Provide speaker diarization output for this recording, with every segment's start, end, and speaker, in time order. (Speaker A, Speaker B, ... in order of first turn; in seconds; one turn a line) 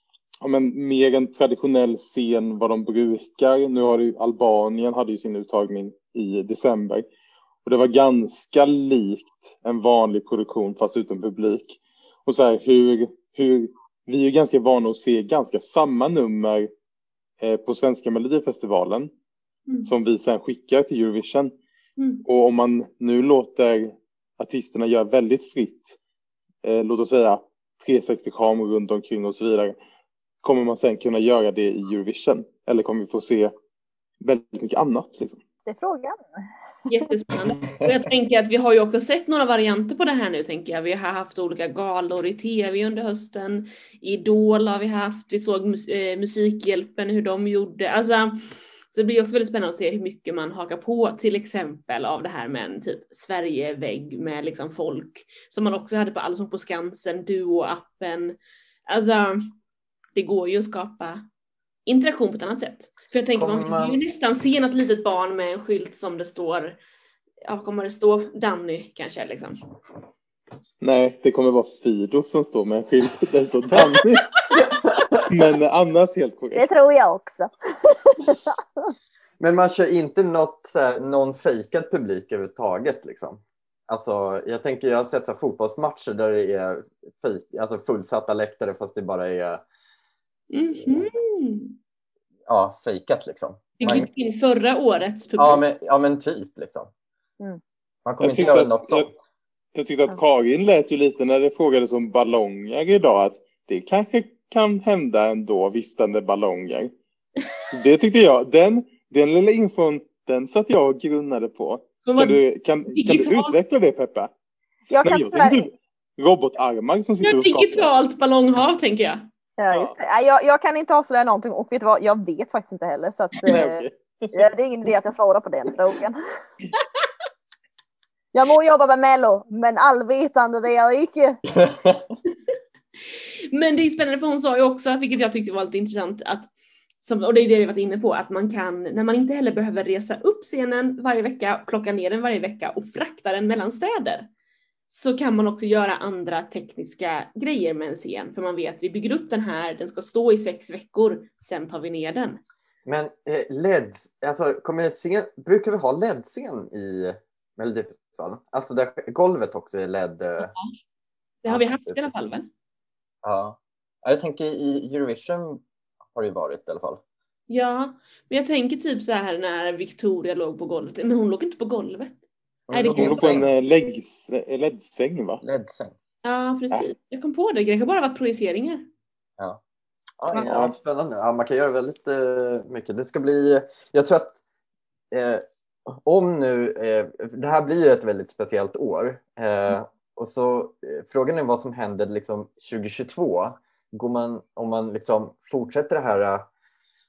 Speaker A: 0.4-7.0
Speaker A: 7.6-16.7
Speaker A: 17.4-19.1
Speaker A: 19.8-21.5
Speaker B: 22.0-22.2
Speaker A: 22.2-26.0
Speaker A: 26.6-29.8
Speaker A: 30.4-33.5
Speaker A: 34.2-35.4
Speaker C: 35.6-36.2
Speaker B: 36.9-58.4
Speaker B: 58.9-59.5
Speaker B: 60.1-61.2
Speaker B: 61.9-66.8
Speaker D: 63.4-64.0
Speaker B: 67.5-69.6
Speaker A: 70.8-74.3
Speaker D: 74.5-75.3
Speaker A: 75.2-76.7
Speaker C: 76.5-78.9
Speaker D: 79.4-89.6
Speaker B: 90.5-91.7
Speaker D: 90.8-91.1
Speaker D: 92.5-94.1
Speaker B: 93.8-95.6
Speaker D: 95.4-96.9
Speaker D: 98.0-99.1
Speaker A: 98.2-99.1
Speaker A: 99.7-106.9
Speaker A: 107.7-114.3
Speaker B: 112.0-112.4
Speaker B: 112.9-113.5
Speaker C: 114.9-115.7
Speaker A: 115.0-117.9
Speaker B: 117.2-119.3
Speaker C: 119.6-126.2
Speaker A: 123.5-124.4
Speaker C: 128.3-131.4
Speaker D: 131.6-132.1
Speaker B: 133.1-136.5
Speaker B: 137.0-144.3
Speaker B: 144.9-152.4
Speaker D: 152.8-160.5
Speaker B: 160.4-160.7
Speaker B: 161.4-162.5
Speaker D: 161.4-162.1
Speaker D: 163.2-167.0
Speaker B: 167.5-172.2
Speaker D: 172.7-173.5
Speaker B: 172.7-173.4
Speaker A: 172.9-175.4
Speaker D: 175.4-175.9
Speaker B: 176.2-178.8
Speaker D: 180.2-184.4
Speaker A: 180.4-180.7
Speaker D: 185.1-196.5